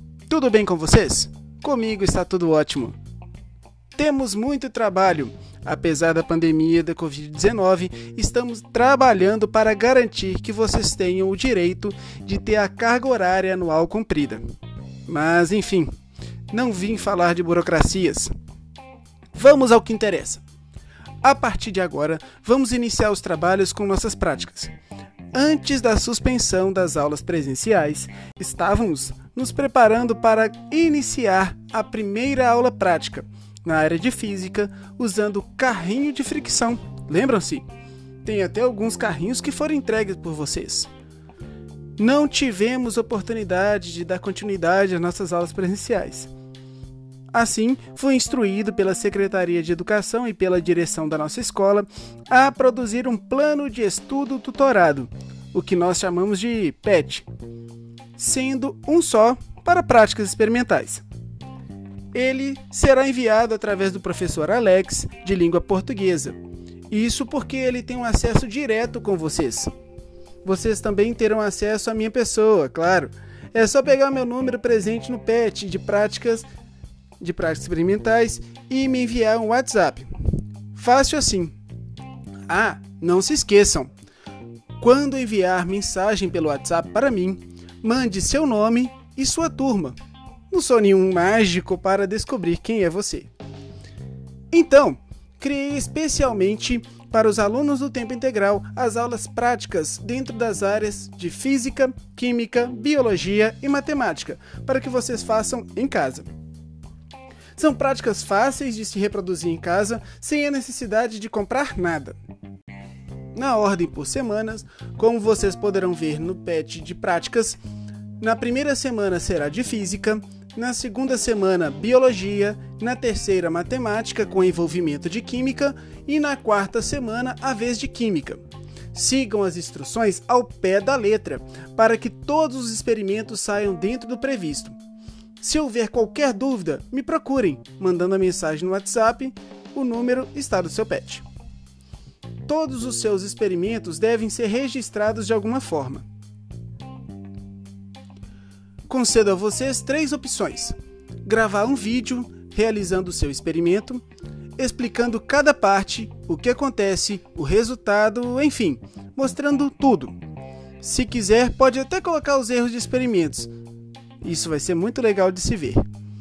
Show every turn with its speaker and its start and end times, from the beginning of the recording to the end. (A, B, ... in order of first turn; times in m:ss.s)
0:00.3-0:03.0 A
0:03.9-0:14.4 A
0:15.1-0:15.9 A
0:16.5-0:18.3 A
0:19.3-0:20.4 A
0:21.2-0:24.7 A
0:25.3-0:37.6 A
0:38.2-0:40.9 A
0:42.0-0:46.3 A
0:47.3-0:57.2 A
0:58.2-1:01.0 A
1:02.1-1:06.4 A
1:06.9-1:09.7 A
1:10.4-1:16.4 A
1:17.2-1:20.1 A
1:20.7-1:21.5 A
1:22.5-1:23.9 A
1:24.8-1:30.0 A
1:30.5-1:33.3 A
1:34.5-1:46.3 A
1:47.6-1:52.2 A
1:53.3-1:57.6 A
1:58.2-2:08.4 A
2:08.9-2:14.8 A
2:15.4-2:21.2 A
2:22.4-2:26.0 A
2:28.9-2:34.0 A
2:34.6-2:40.2 A
2:40.8-2:43.5 A
2:44.2-2:45.8 A